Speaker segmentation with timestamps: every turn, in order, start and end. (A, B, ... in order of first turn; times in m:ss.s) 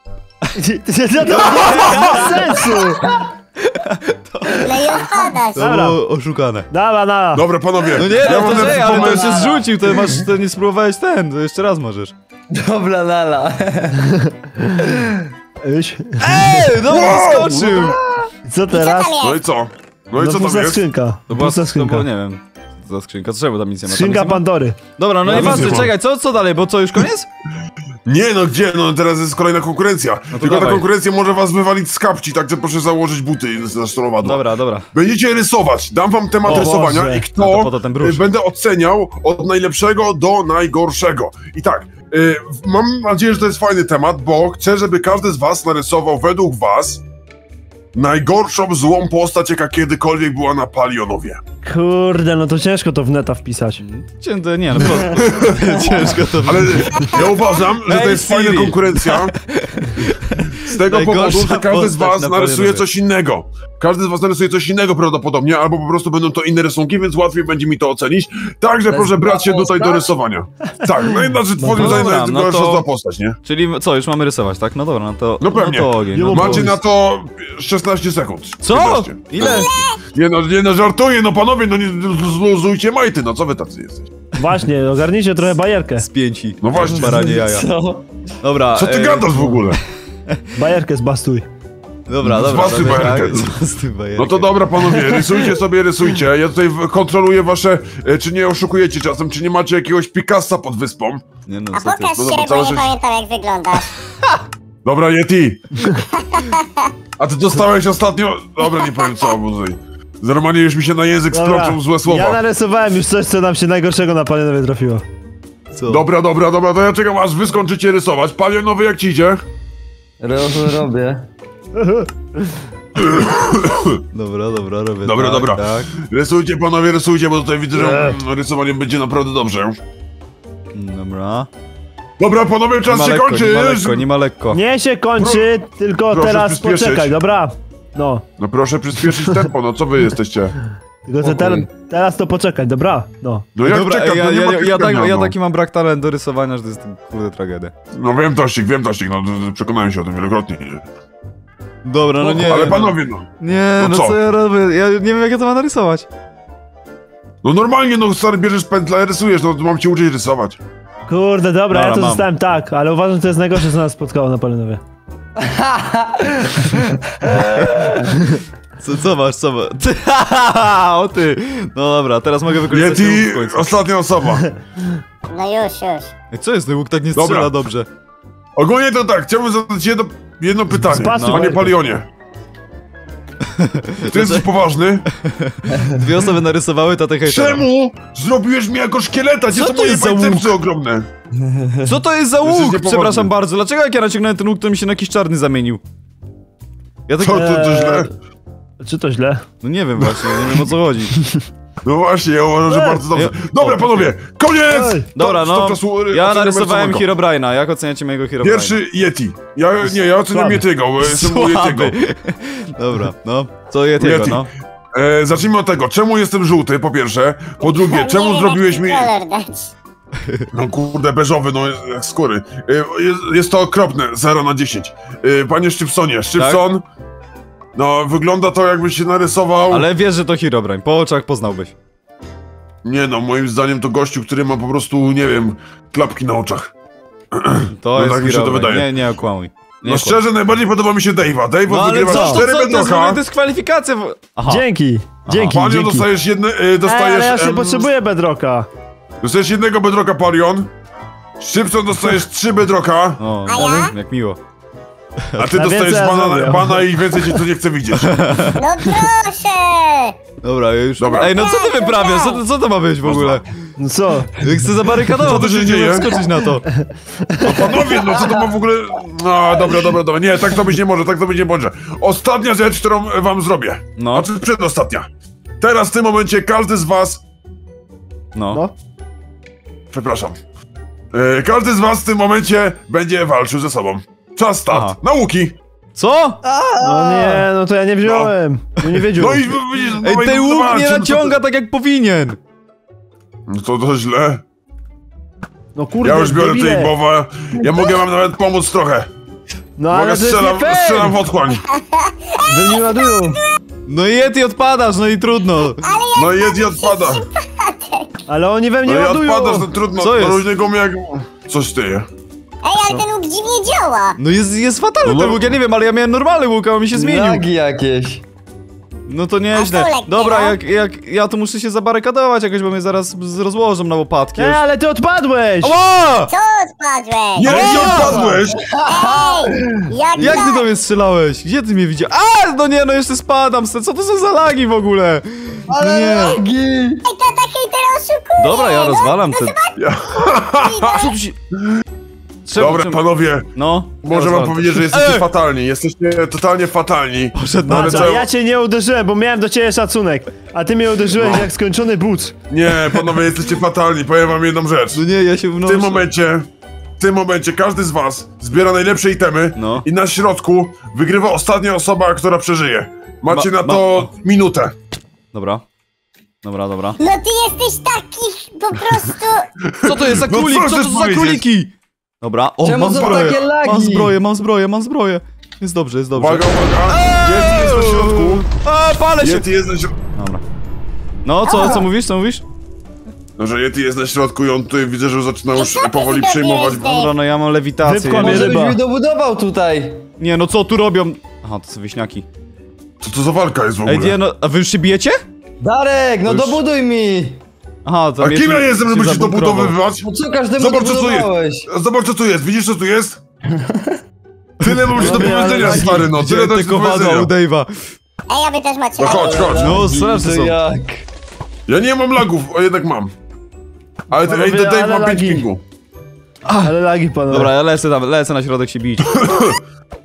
0:00.6-0:03.0 A
0:01.2-0:02.7 B
0:02.6-0:03.3 C
0:03.6-0:04.6 B
0:04.6-0:05.6 D
0:05.5-0:06.7 B
0:05.6-0:06.0 A
0:06.7-0:07.4 A
0:07.3-0:09.5 E
0:08.0-0:12.1 B
0:08.1-0:10.2 C
0:12.5-0:14.0 C
0:14.2-0:14.8 A
0:14.9-0:15.3 C
0:15.6-0:16.6 A
0:16.2-0:18.0 B
0:16.8-0:17.9 E
0:18.4-0:19.2 A
0:18.7-0:19.4 D
0:19.2-0:20.8 E
0:20.2-0:22.1 A
0:21.3-0:24.4 B
0:23.8-0:25.8 A
0:25.0-0:27.3 B
0:25.2-0:25.9 E
0:28.0-0:47.0 E
0:30.3-0:30.8 B
0:34.2-0:34.9 B
0:36.4-0:37.3 A
0:36.5-0:36.8 B
0:37.4-0:38.2 B
0:47.9-0:51.4 E
0:51.6-0:53.8 A
0:53.8-0:57.2 B
0:55.0-0:55.5 E
0:56.4-0:59.3 E
0:57.8-1:02.8 B
1:00.6-1:13.4 E
1:08.9-1:10.1 C
1:11.6-1:12.0 A
1:11.7-1:12.8 B
1:13.4-1:16.8 B
1:15.4-1:19.6 E
1:16.1-1:16.8 A
1:18.6-1:19.8 B
1:19.4-1:20.0 D
1:20.1-1:24.1 E
1:24.4-1:26.0 A
1:26.0-1:27.7 B
1:26.6-1:27.3 E
1:26.8-1:28.0 C
1:28.4-1:29.6 B
1:28.7-1:29.8 E
1:30.6-1:31.5 A
1:32.1-1:35.5 B
1:32.2-1:33.5 E
1:34.2-1:41.2 E
1:41.4-1:42.1 B
1:41.7-1:43.9 D
1:42.2-1:42.9 E
1:44.8-1:45.8 E
1:46.2-1:46.9 D
1:47.2-1:52.4 E
1:48.8-1:49.3 D
1:51.3-1:55.0 A
1:55.7-1:56.0 B
1:55.9-1:59.4 E
2:00.2-2:01.3 C
2:01.7-2:02.1 A
2:03.0-2:04.0 E
2:04.1-2:05.9 B
2:05.0-2:09.8 E
2:07.7-2:08.2 C
2:10.7-2:11.5 B
2:12.2-2:14.1 E
2:12.9-2:14.6 B
2:14.5-2:18.2 A
2:15.2-2:15.5 E
2:16.1-2:17.2 E
2:18.4-2:20.6 E
2:21.1-2:23.5 A
2:21.2-2:21.7 C
2:23.5-2:25.3 E
2:23.6-2:27.7 B
2:27.9-2:30.8 E
2:31.8-2:36.0 B
2:32.2-2:34.2 E
2:37.4-2:40.6 E
2:41.1-2:44.8 A
2:41.7-2:42.3 B
2:45.4-2:48.1 C
2:47.3-2:47.9 B
2:48.8-2:53.7 B
2:52.7-2:54.4 E
2:55.3-2:56.1 D
2:56.3-2:57.9 B
2:57.1-2:57.5 E
2:58.6-3:02.1 E
3:00.8-3:01.7 A
3:01.1-3:01.5 B
3:03.6-3:04.5 B
3:04.0-3:05.0 E
3:05.1-3:07.6 B
3:05.7-3:06.0 C
3:07.2-3:11.1 E
3:09.5-3:10.5 B
3:11.4-3:11.9 C
3:11.8-3:15.8 B
3:12.4-3:13.3 E
3:17.1-3:17.5 B
3:17.2-3:18.1 E
3:17.3-3:18.1 A
3:18.8-3:19.4 A
3:19.6-3:21.1 B
3:20.0-3:20.6 E
3:21.8-3:27.1 E
3:22.7-3:22.9 A
3:23.1-3:24.1 B
3:24.7-3:25.0 A
3:25.1-3:28.8 B
3:28.4-3:32.0 E
3:30.3-3:30.6 A
3:31.0-3:34.5 B
3:34.0-3:39.1 E
3:37.6-3:39.7 D
3:40.5-3:46.8 E
3:46.4-3:46.6 B
3:47.8-3:49.9 E
3:49.7-3:51.7 B
3:52.8-3:56.7 E
3:57.3-3:58.9 E
3:57.7-4:00.2 B
3:59.8-4:03.2 E
4:01.7-4:04.6 B
4:02.0-4:02.4 A
4:04.5-4:06.1 A
4:05.2-4:05.6 B
4:05.5-4:07.9 E
4:06.8-4:08.7 A
4:09.2-4:10.7 E
4:11.4-4:13.2 E
4:13.2-4:14.4 B
4:13.5-4:13.9 D
4:15.4-4:18.1 E
4:15.5-4:16.8 A
4:18.0-4:18.6 B
4:18.6-4:20.2 D
4:20.4-4:23.4 B
4:21.0-4:21.3 E
4:21.2-4:22.4 D
4:23.0-4:23.4 E
4:23.8-4:24.3 A
4:24.4-4:26.7 B
4:25.2-4:26.1 E
4:27.4-4:35.1 E
4:34.0-4:34.3 B
4:35.6-4:37.2 E
4:38.3-4:38.6 B
4:39.9-4:40.4 E
4:41.1-4:45.6 E
4:44.7-4:45.0 B
4:45.9-4:46.4 B
4:46.4-4:47.4 C
4:46.8-4:49.4 A
4:48.0-4:48.3 E
4:49.1-4:51.4 E
4:50.0-4:52.4 B
4:53.5-4:54.4 E
4:55.7-4:56.9 A
4:56.0-4:59.1 E
4:59.8-5:01.2 A
4:59.9-5:01.6 E
5:01.8-5:03.3 D
5:02.4-5:03.4 A
5:03.8-5:05.8 B
5:05.8-5:08.1 D
5:06.1-5:07.2 E
5:08.3-5:09.7 A
5:08.8-5:12.0 E
5:10.0-5:10.4 B
5:12.6-5:14.2 D
5:14.2-5:17.4 B
5:15.0-5:15.6 E
5:16.9-5:18.2 C
5:19.1-5:24.6 B
5:19.6-5:20.6 D
5:24.4-5:25.7 A
5:25.6-5:26.3 B
5:26.3-5:27.7 D
5:27.4-5:28.6 E
5:27.4-5:28.3 B
5:27.4-5:30.4 C
5:28.8-5:30.7 D
5:30.2-5:36.4 B
5:35.7-5:37.0 C
5:37.0-5:39.8 D
5:38.4-5:39.6 B
5:39.8-5:41.1 E
5:40.6-5:41.1 D
5:41.0-5:41.3 B
5:42.4-5:43.0 B
5:42.6-5:43.5 E
5:43.5-5:45.3 B
5:44.0-5:48.3 E
5:47.3-5:48.1 B
5:47.7-5:52.3 A
5:51.2-5:51.5 E
5:52.5-5:55.0 E
5:54.9-5:56.0 B
5:55.6-5:56.5 E
5:57.0-6:04.7 E
5:59.6-5:59.8 B
6:03.3-6:04.1 B
6:05.3-6:05.6 B
6:06.4-6:07.0 B
6:07.0-6:09.5 D
6:09.6-6:11.4 E
6:09.8-6:19.4 B
6:12.6-6:14.2 C
6:13.0-6:13.4 E
6:16.1-6:18.5 E
6:19.2-6:19.9 E
6:20.2-6:20.4 B
6:21.2-6:22.4 B
6:21.4-6:21.8 D
6:23.4-6:27.0 E
6:25.5-6:27.1 D
6:26.8-6:28.5 B
6:27.8-6:28.8 A
6:28.1-6:30.0 C
6:30.2-6:32.2 B
6:33.0-6:34.2 E
6:33.8-6:35.2 B
6:35.6-6:37.4 C
6:37.8-6:39.8 B
6:38.2-6:40.0 E
6:40.0-6:41.7 C
6:40.6-6:43.2 E
6:43.5-6:44.0 C
6:44.6-6:47.3 E
6:44.6-6:47.7 B
6:45.0-6:46.1 A
6:48.3-6:49.6 D
6:49.0-6:49.8 E
6:49.0-6:51.0 C
6:49.6-6:50.6 B
6:51.7-6:53.1 E
6:54.1-6:55.6 E
6:54.2-6:55.4 A
6:56.4-6:56.7 B
6:56.6-6:57.5 A
6:57.3-6:59.2 B
6:59.1-6:59.6 E